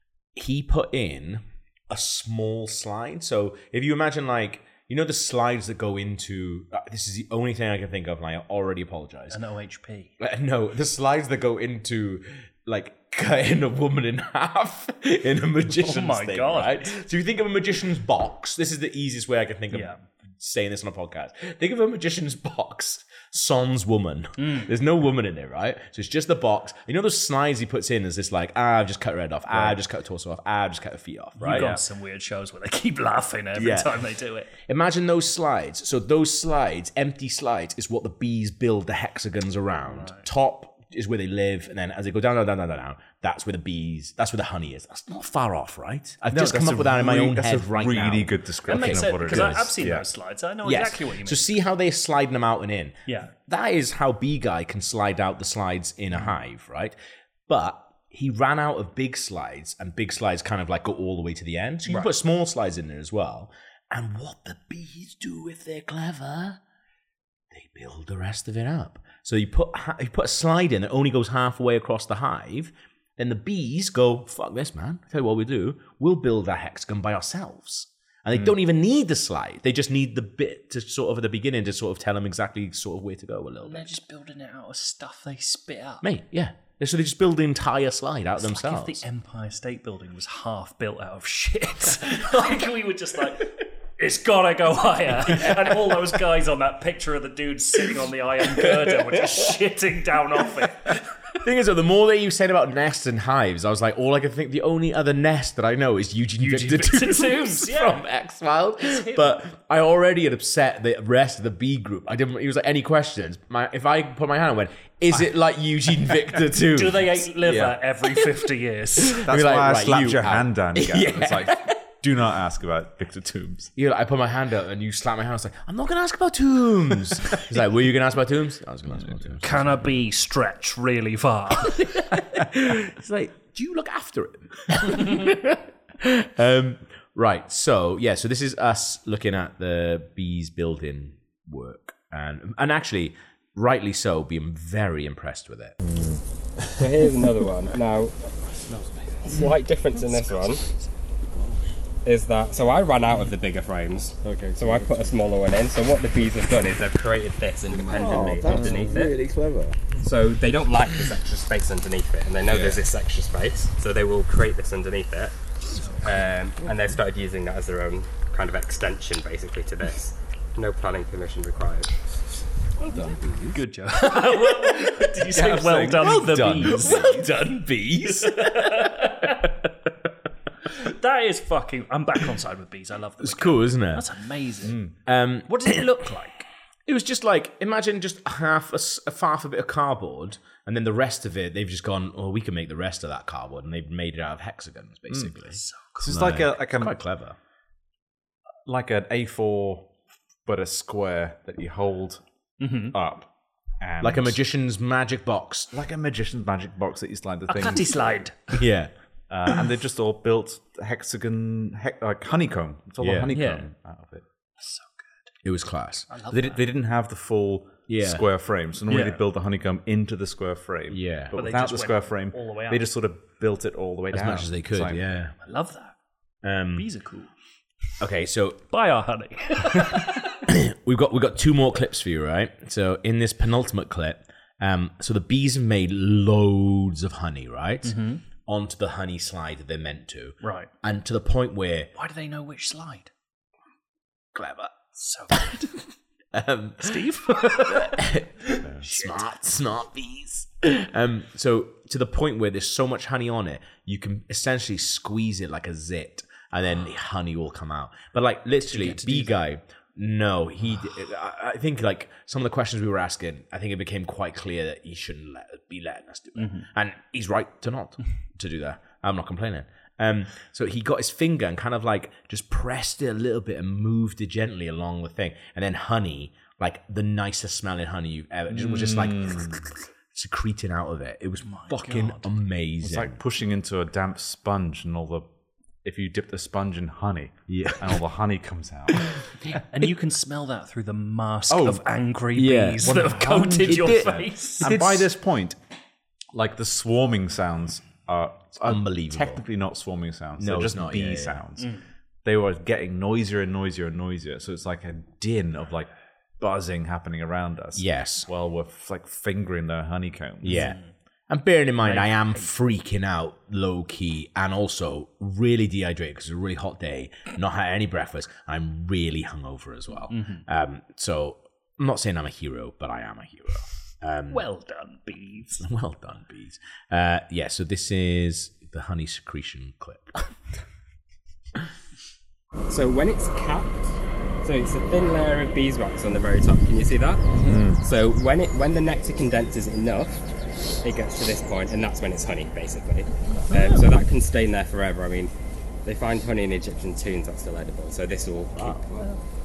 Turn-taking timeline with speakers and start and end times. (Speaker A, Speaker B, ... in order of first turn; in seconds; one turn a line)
Speaker A: 0.3-9.4
Speaker B: 9.3-10.1
Speaker A: 10.2-31.8
Speaker B: 15.7-17.0
Speaker B: 19.7-20.0
Speaker B: 24.4-24.7
Speaker C: 29.5-29.8
Speaker B: 31.4-34.5
Speaker C: 31.5-31.8
Speaker A: 33.5-34.0
Speaker A: 34.6-49.7
Speaker B: 40.0-40.2
Speaker C: 46.3-50.1
Speaker B: 48.7-51.5
Speaker A: 50.6-57.0
Speaker B: 53.1-53.3
Speaker A: 57.5-66.6
Speaker A: 67.5-83.9
Speaker B: 83.6-86.0
Speaker A: 86.0-89.0
Speaker B: 88.4-101.0
Speaker A: 95.3-95.7
Speaker A: 98.5-99.5
Speaker A: 100.9-117.6
Speaker B: 106.4-108.0
Speaker B: 108.8-109.4
Speaker B: 116.6-119.2
Speaker A: 119.0-121.7
Speaker C: 119.2-123.7
Speaker A: 123.8-129.8
Speaker C: 129.0-129.4
Speaker B: 129.4-132.2
Speaker A: 131.6-145.8
Speaker D: 146.8-148.2
Speaker E: 148.5-149.5
Speaker D: 149.2-150.6
Speaker E: 151.3-151.7
Speaker D: 152.1-159.2
Speaker E: 154.2-154.9
Speaker E: 157.7-159.8
Speaker D: 160.0-165.3
Speaker B: 165.7-166.1
Speaker D: 166.0-171.9
Speaker E: 172.8-173.6
Speaker B: 173.5-177.2
Speaker A: 174.4-175.1
Speaker C: 175.3-177.2
Speaker A: 175.8-179.3
Speaker B: 178.1-179.6
Speaker B: 180.7-184.8
Speaker A: 183.2-184.1
Speaker C: 184.6-184.9
Speaker A: 185.1-186.0
Speaker B: 185.5-186.5
Speaker A: 186.9-197.4
Speaker B: 195.5-196.2
Speaker C: 196.0-197.0
Speaker C: 198.7-199.9
Speaker C: 200.5-202.2
Speaker B: 202.6-203.0
Speaker C: 202.9-203.3
Speaker C: 203.8-204.4
Speaker A: 204.0-205.7
Speaker C: 205.7-208.3
Speaker B: 207.5-208.6
Speaker A: 208.5-208.9
Speaker C: 209.3-214.2
Speaker A: 213.0-213.3
Speaker B: 213.3-213.7
Speaker B: 214.6-215.3
Speaker A: 215.4-216.1
Speaker B: 216.1-216.6
Speaker C: 216.3-225.1
Speaker A: 217.9-218.2
Speaker B: 218.9-219.2
Speaker A: 220.9-221.3
Speaker B: 221.3-222.9
Speaker A: 224.1-225.3
Speaker B: 225.4-225.9
Speaker A: 226.4-226.9
Speaker B: 226.7-227.3
Speaker A: 228.0-228.6
Speaker B: 228.7-230.4
Speaker A: 230.5-241.9
Speaker B: 237.8-238.2
Speaker B: 240.4-240.7
Speaker B: 241.9-243.1
Speaker A: 244.3-244.8
Speaker B: 245.0-245.7
Speaker A: 245.3-245.7
Speaker A: 246.3-283.2
Speaker B: 246.8-248.0
Speaker B: 248.8-249.3
Speaker B: 258.7-259.4
Speaker B: 266.4-266.7
Speaker C: 278.5-279.6
Speaker B: 281.4-282.3
Speaker C: 282.8-285.2
Speaker C: 285.8-289.2
Speaker A: 287.5-288.0
Speaker A: 289.0-289.6
Speaker B: 289.7-294.8
Speaker C: 291.5-291.8
Speaker A: 292.4-295.1
Speaker C: 292.8-295.6
Speaker C: 296.3-301.7
Speaker A: 298.6-299.4
Speaker A: 300.4-301.4
Speaker C: 302.2-310.7
Speaker A: 307.8-308.3
Speaker A: 310.4-324.4
Speaker B: 310.5-310.9
Speaker B: 311.8-312.5
Speaker B: 320.1-320.4
Speaker B: 324.3-325.7
Speaker A: 325.6-330.3
Speaker D: 332.7-333.9
Speaker D: 334.4-340.2
Speaker E: 337.4-337.8
Speaker D: 340.8-345.3
Speaker B: 343.5-343.8
Speaker D: 345.9-349.1